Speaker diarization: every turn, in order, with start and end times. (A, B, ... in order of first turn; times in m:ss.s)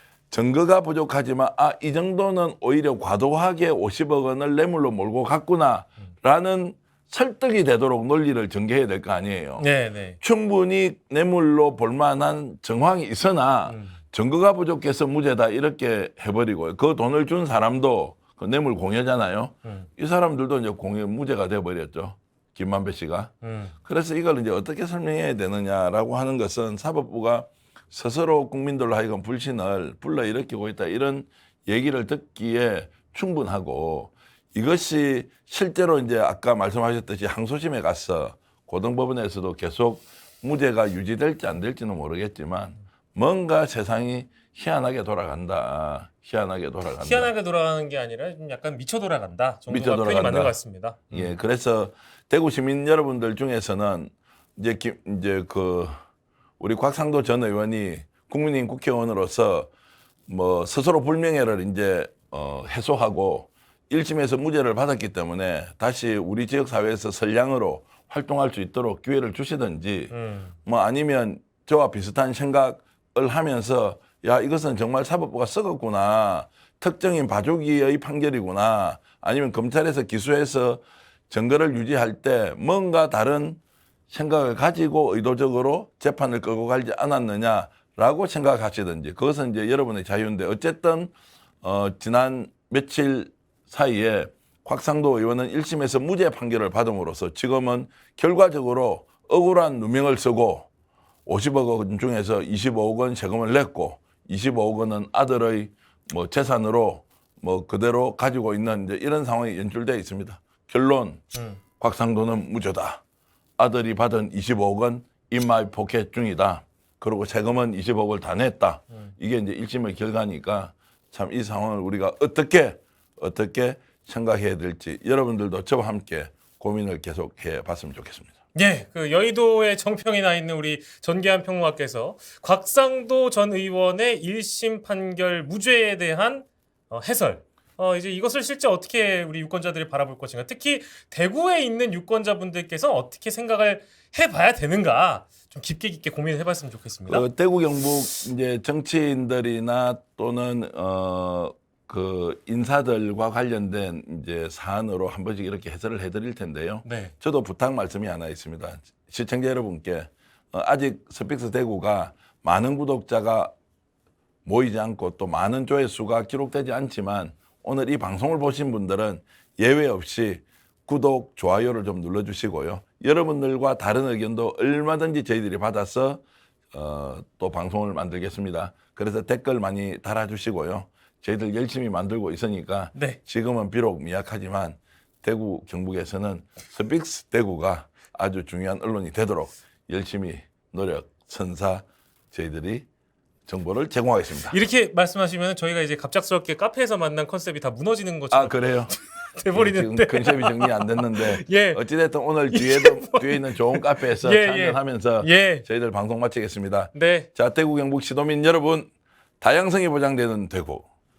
0:00.3-0:09.7 A
0:09.6-0:10.2 B
0:10.2-0:23.3 A
0:13.7-0:14.0 B
0:23.4-0:23.7 B
0:23.8-0:47.3 A
0:47.0-0:51.3 B
0:49.7-0:50.6 A
0:51.1-0:55.9 A
0:56.6-0:59.7 A
1:00.3-1:10.1 A
1:10.1-1:10.5 B
1:10.6-1:40.7 A
1:41.2-1:51.2 A
1:51.3-1:51.6 B
1:51.8-1:53.0 A
1:53.6-2:08.3 A
2:08.5-2:27.3 B
2:27.1-2:43.5 A
2:36.8-2:37.1 B
2:44.4-3:12.9 A
3:02.9-3:03.2 B
3:13.5-3:14.6 A
3:14.5-3:21.8 B
3:18.3-3:18.9 A
3:19.5-3:28.9 A
3:22.5-3:25.6 B
3:26.9-3:27.3 B
3:29.4-3:30.8 A